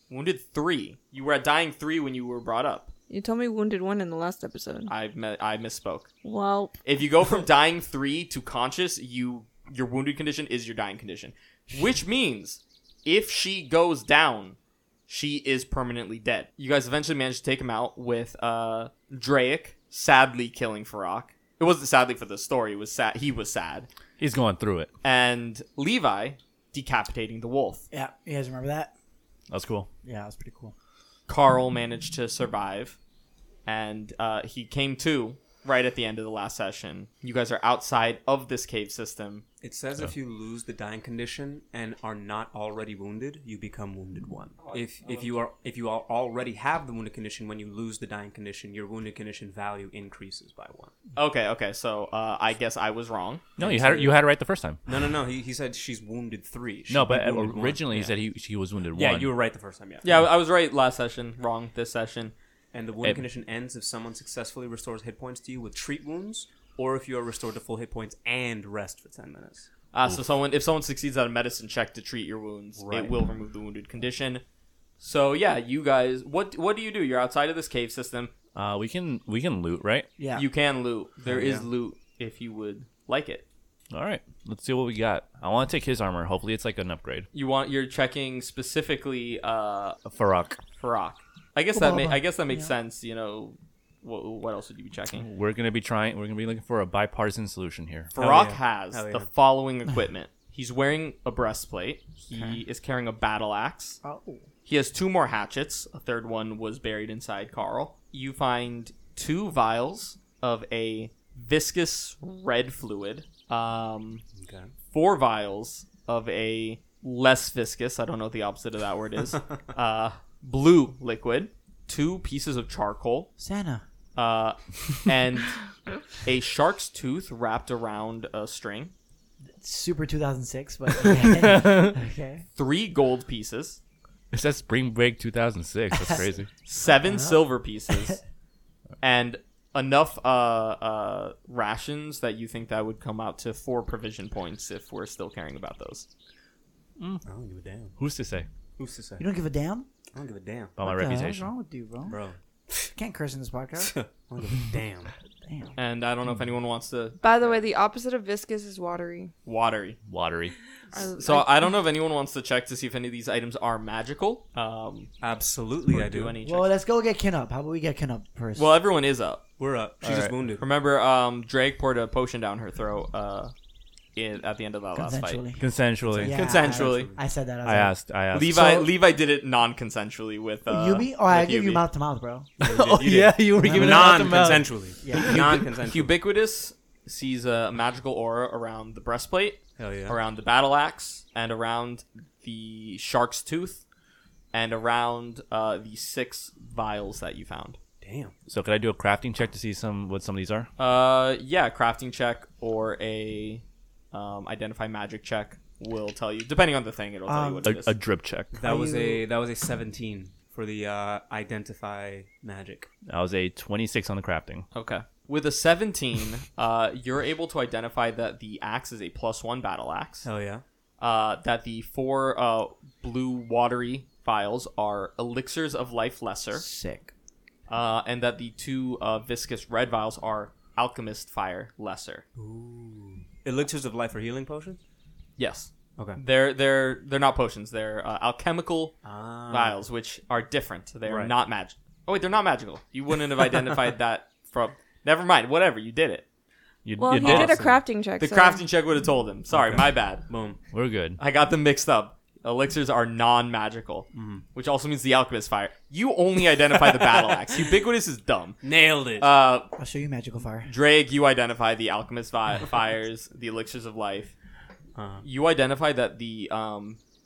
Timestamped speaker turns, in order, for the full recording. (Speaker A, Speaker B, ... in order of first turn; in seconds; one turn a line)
Speaker A: 0.1-2.9
Speaker B: 3.1-4.9
Speaker A: 4.9-6.1
Speaker B: 6.2-6.8
Speaker A: 6.8-14.6
Speaker A: 15.1-23.9
Speaker C: 24.2-24.9
Speaker A: 25.0-27.8
Speaker D: 27.9-28.9
Speaker C: 29.5-29.9
Speaker D: 30.0-30.7
Speaker A: 31.3-33.0
Speaker A: 33.6-39.4
Speaker E: 39.6-50.9
Speaker A: 44.6-45.4
Speaker A: 51.1-53.4
Speaker C: 53.6-54.8
Speaker E: 53.6-54.2
Speaker E: 54.9-58.1
Speaker C: 56.9-59.3
Speaker E: 58.9-60.2
Speaker A: 60.0-62.3
Speaker E: 62.7-69.7
Speaker A: 69.9-74.4
Speaker E: 72.8-73.2
Speaker A: 75.0-78.3
Speaker C: 78.5-80.1
Speaker D: 80.2-80.5
Speaker A: 80.3-83.4
Speaker E: 81.2-81.7
Speaker C: 83.9-87.3
Speaker A: 87.3-90.0
Speaker C: 90.0-90.6
Speaker A: 90.8-95.3
Speaker D: 91.7-92.7
Speaker C: 95.2-98.1
Speaker A: 98.1-104.0
Speaker E: 98.1-99.3
Speaker D: 104.0-104.5
Speaker A: 104.7-114.2
Speaker E: 114.4-114.7
Speaker A: 114.9-123.3
Speaker D: 123.4-123.8
Speaker A: 124.2-125.6
Speaker A: 126.1-128.9
Speaker D: 129.5-132.4
Speaker C: 131.2-131.9
Speaker A: 132.5-133.8
Speaker C: 134.3-136.5
Speaker A: 136.7-138.2
Speaker D: 137.0-137.5
Speaker A: 139.0-146.1
Speaker C: 147.0-147.2
Speaker E: 147.2-148.0
Speaker C: 148.0-148.4
Speaker E: 148.8-149.2
Speaker D: 149.2-149.8
Speaker E: 150.1-150.8
Speaker C: 150.8-151.5
Speaker D: 150.8-152.2
Speaker E: 152.1-152.9
Speaker D: 152.9-153.9
Speaker E: 153.8-155.1
Speaker D: 155.4-155.8
Speaker A: 155.8-157.6
Speaker B: 157.2-159.3
Speaker A: 159.4-160.0
Speaker C: 160.1-160.5
Speaker B: 160.9-161.7
Speaker A: 161.2-165.1
Speaker E: 165.2-166.4
Speaker A: 165.9-166.7
Speaker D: 166.4-168.8
Speaker A: 168.6-169.4
Speaker E: 169.6-170.7
Speaker C: 170.0-170.3
Speaker A: 170.6-173.5
Speaker A: 174.1-175.4
Speaker D: 174.9-178.9
Speaker C: 175.6-176.4
Speaker E: 176.1-177.2
Speaker A: 176.3-177.1
Speaker C: 177.6-178.6
Speaker A: 178.3-181.8
Speaker D: 180.7-182.5
Speaker E: 182.6-186.1
Speaker C: 182.6-185.3
Speaker D: 183.6-184.2
Speaker D: 185.0-185.4
Speaker A: 185.2-193.8
Speaker E: 189.8-190.2
Speaker A: 194.5-197.8
Speaker E: 198.0-198.3
Speaker C: 198.5-200.7
Speaker A: 200.8-207.9
Speaker D: 207.2-207.7
Speaker C: 207.6-208.5
Speaker E: 208.5-212.9
Speaker D: 208.6-209.2
Speaker C: 213.1-214.7
Speaker A: 214.7-220.2
Speaker E: 220.2-220.6
Speaker A: 221.0-226.6
Speaker D: 226.5-227.1
Speaker A: 227.7-232.2
Speaker E: 232.4-234.8
Speaker A: 235.4-246.2
Speaker E: 239.0-239.8
Speaker E: 241.1-241.3
Speaker C: 246.8-247.7
Speaker B: 247.0-248.6
Speaker A: 247.2-247.6
Speaker E: 247.2-247.6
Speaker A: 248.2-250.3
Speaker E: 249.5-250.6
Speaker C: 250.7-251.2
Speaker A: 251.2-258.6
Speaker E: 254.1-254.4
Speaker E: 258.6-259.3
Speaker A: 259.2-259.7
Speaker D: 259.8-260.7
Speaker A: 260.6-264.3
Speaker E: 264.9-265.2
Speaker A: 265.2-267.0